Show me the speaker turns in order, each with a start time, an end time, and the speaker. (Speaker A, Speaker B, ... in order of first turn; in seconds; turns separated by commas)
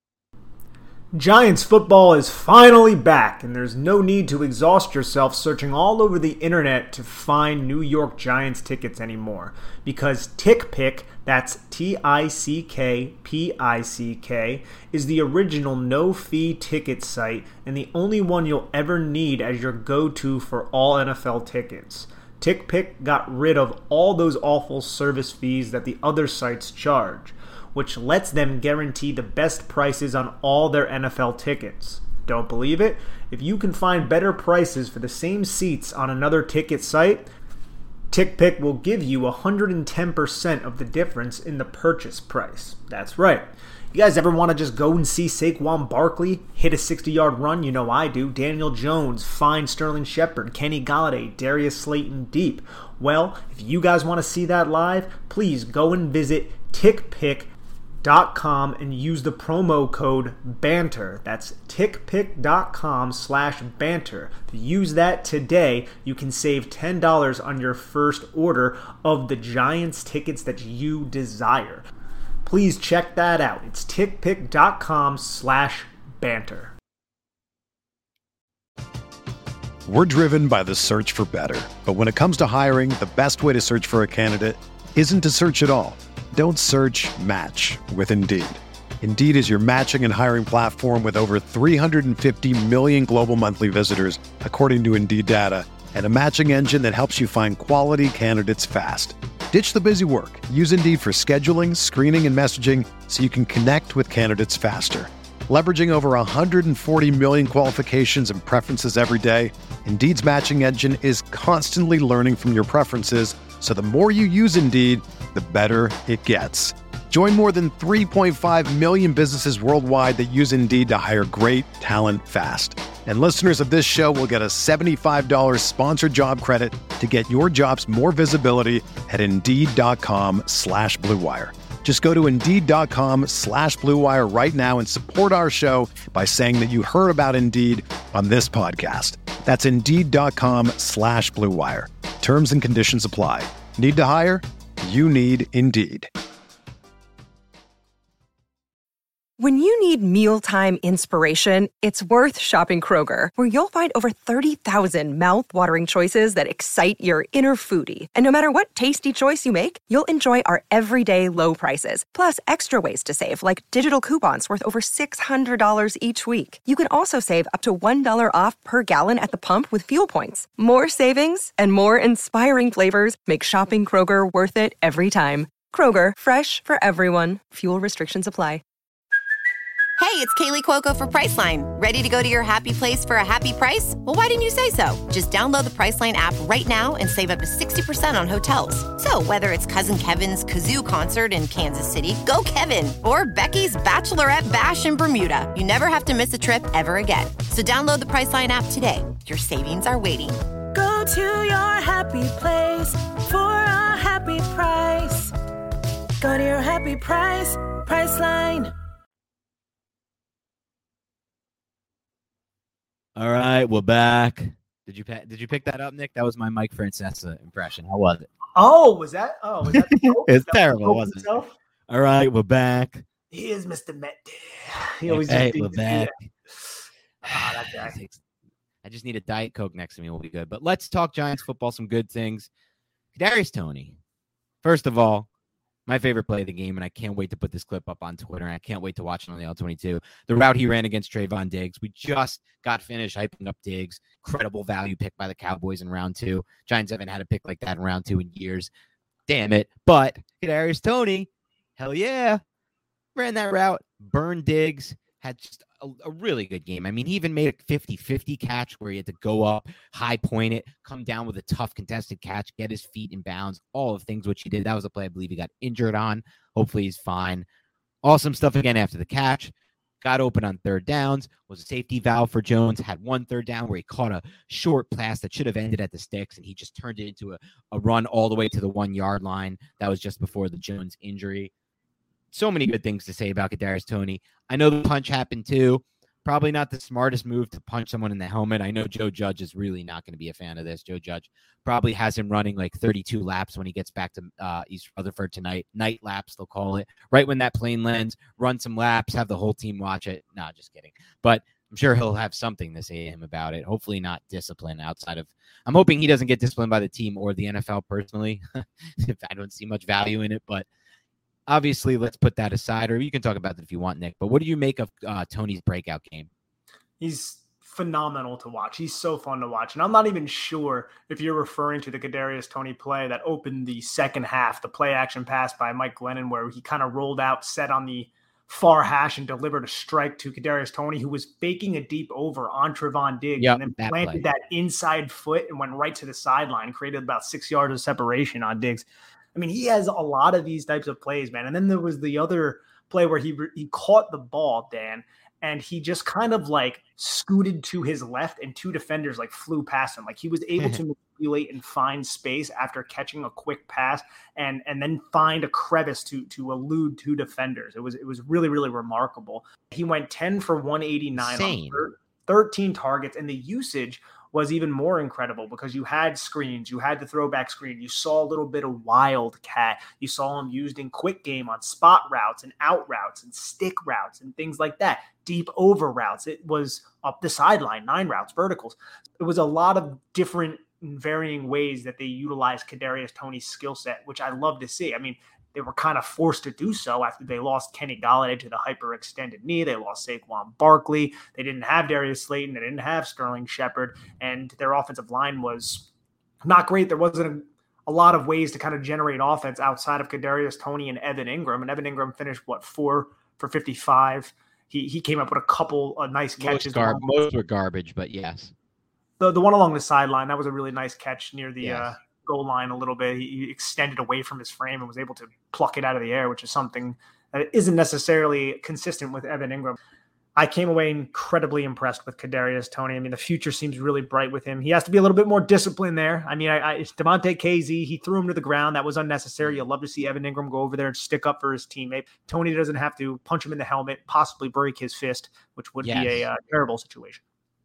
Speaker A: 1.1-37.3, Speaker A: 38.1-57.5, Speaker A: 58.0-71.8, Speaker A: 72.4-76.7, Speaker B: 79.8-146.1, Speaker C: 149.4-178.6, Speaker D: 180.0-200.4, Speaker E: 200.7-205.3, Speaker E: 206.2-208.7, Speaker F: 213.2-218.3, Speaker A: 218.6-221.5, Speaker F: 219.7-221.3, Speaker F: 221.9-223.0, Speaker A: 223.3-227.9, Speaker F: 225.1-226.3, Speaker F: 227.2-228.2, Speaker F: 228.8-232.5, Speaker F: 233.1-234.0, Speaker F: 234.6-235.3, Speaker F: 235.9-248.7, Speaker F: 249.3-252.4, Speaker F: 253.2-267.4, Speaker F: 268.0-281.5, Speaker F: 282.3-310.6, Speaker F: 311.5-316.3, Speaker A: 317.0-395.9, Speaker F: 333.4-334.2, Speaker F: 361.1-361.9, Speaker A: 396.4-407.1, Speaker F: 406.4-408.5, Speaker A: 409.2-419.8, Speaker F: 411.6-411.9, Speaker A: 420.4-437.2, Speaker F: 429.4-429.6, Speaker F: 435.8-436.3